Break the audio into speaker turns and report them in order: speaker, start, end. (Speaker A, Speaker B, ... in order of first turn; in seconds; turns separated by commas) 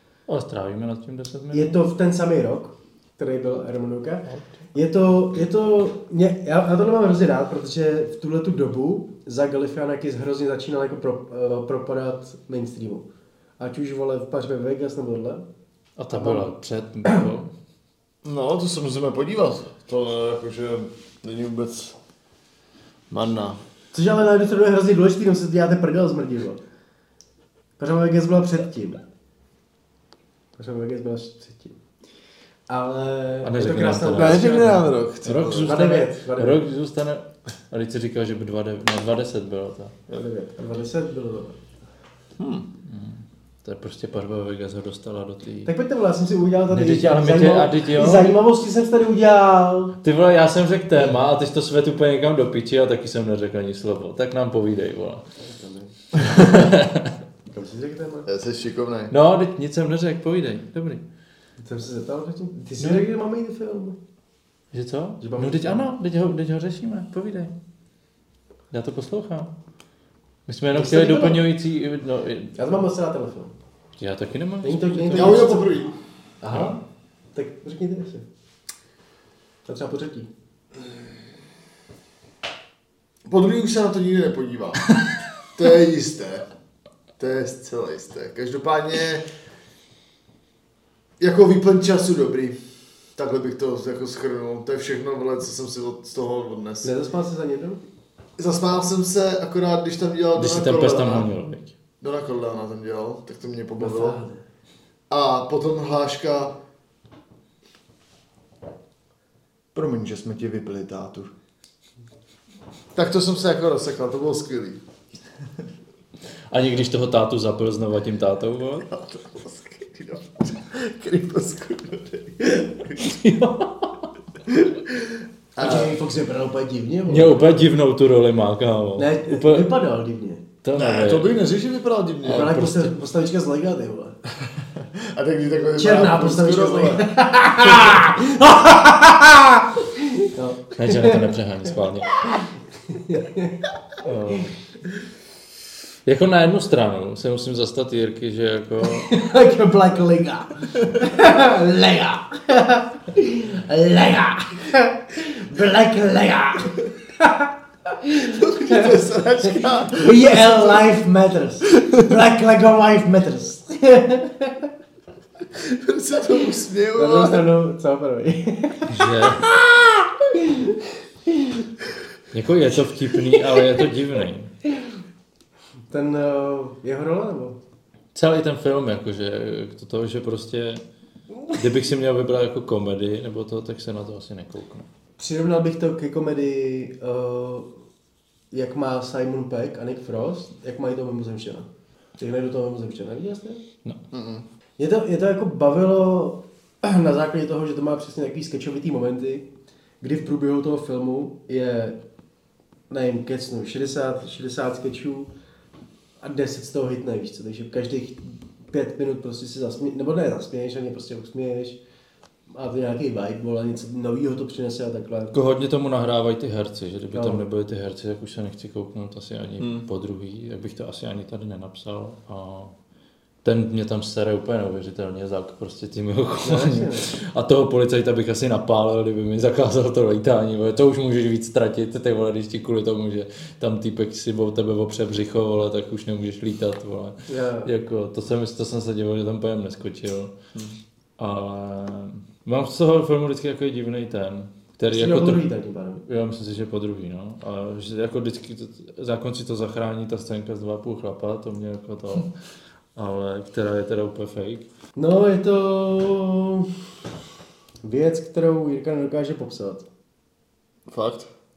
Speaker A: 0.3-1.8, Speaker B: 1.5-13.0, Speaker B: 13.6-15.4, Speaker A: 16.0-17.5, Speaker B: 16.1-16.5, Speaker C: 18.2-21.9, Speaker C: 23.1-23.6, Speaker B: 23.9-26.6, Speaker B: 27.8-29.0, Speaker B: 30.6-31.8, Speaker B: 32.7-34.8, Speaker A: 33.4-39.9, Speaker C: 34.1-35.7, Speaker B: 35.6-36.6, Speaker B: 40.1-41.6, Speaker C: 42.4-42.6, Speaker A: 42.9-45.7, Speaker B: 45.6-50.0, Speaker A: 46.7-48.3, Speaker A: 50.0-55.2, Speaker B: 55.4-56.6, Speaker A: 56.2-57.1, Speaker B: 57.5-58.3, Speaker C: 58.2-59.1, Speaker A: 59.1-61.0, Speaker B: 61.6-64.0, Speaker A: 64.7-67.5, Speaker B: 65.2-65.8, Speaker A: 68.7-69.5, Speaker A: 70.5-72.5, Speaker B: 70.7-71.4, Speaker B: 72.5-73.5, Speaker A: 74.0-75.5, Speaker B: 74.6-75.8, Speaker C: 75.1-75.9, Speaker B: 76.4-76.8, Speaker B: 77.3-78.2, Speaker B: 79.7-80.3, Speaker C: 83.2-84.8, Speaker C: 85.5-86.5, Speaker C: 87.2-89.2, Speaker C: 91.2-92.6, Speaker C: 93.2-96.9, Speaker B: 96.8-97.8, Speaker C: 98.4-101.3, Speaker A: 100.3-101.7, Speaker C: 102.0-104.2, Speaker B: 103.8-104.4, Speaker C: 105.1-106.6, Speaker C: 109.7-111.3, Speaker C: 112.9-114.8, Speaker A: 116.5-118.9, Speaker C: 118.9-123.0, Speaker A: 123.0-124.1, Speaker C: 124.5-125.9, Speaker B: 125.6-127.6, Speaker A: 127.1-129.7, Speaker B: 129.0-130.4, Speaker A: 130.6-131.3, Speaker C: 130.7-132.5, Speaker B: 132.2-134.2, Speaker A: 132.2-132.9, Speaker C: 134.8-137.0, Speaker B: 135.8-141.3, Speaker A: 140.8-142.2, Speaker B: 142.4-143.6, Speaker A: 144.0-144.5, Speaker A: 146.0-149.1, Speaker B: 148.9-158.9, Speaker C: 158.2-160.6, Speaker B: 159.9-164.7, Speaker C: 165.5-167.5, Speaker B: 166.9-169.3, Speaker A: 168.9-169.5, Speaker B: 170.3-170.8, Speaker B: 171.3-171.5, Speaker A: 172.3-174.5, Speaker B: 175.9-177.6, Speaker A: 178.1-180.8, Speaker A: 181.5-184.8, Speaker B: 185.2-187.7, Speaker B: 188.5-191.7, Speaker B: 192.2-193.6, Speaker C: 194.1-194.4, Speaker B: 194.8-199.5, Speaker B: 200.0-202.0, Speaker B: 202.9-205.3, Speaker B: 206.2-211.8, Speaker B: 212.5-215.3, Speaker A: 215.3-222.7, Speaker B: 217.1-217.5, Speaker C: 219.6-219.8, Speaker A: 223.4-240.3, Speaker B: 226.4-227.1, Speaker B: 237.3-237.7, Speaker A: 241.2-245.4, Speaker B: 244.9-246.0, Speaker A: 246.1-252.3, Speaker A: 252.9-254.7, Speaker B: 255.0-256.7, Speaker B: 257.8-259.9, Speaker C: 260.9-261.3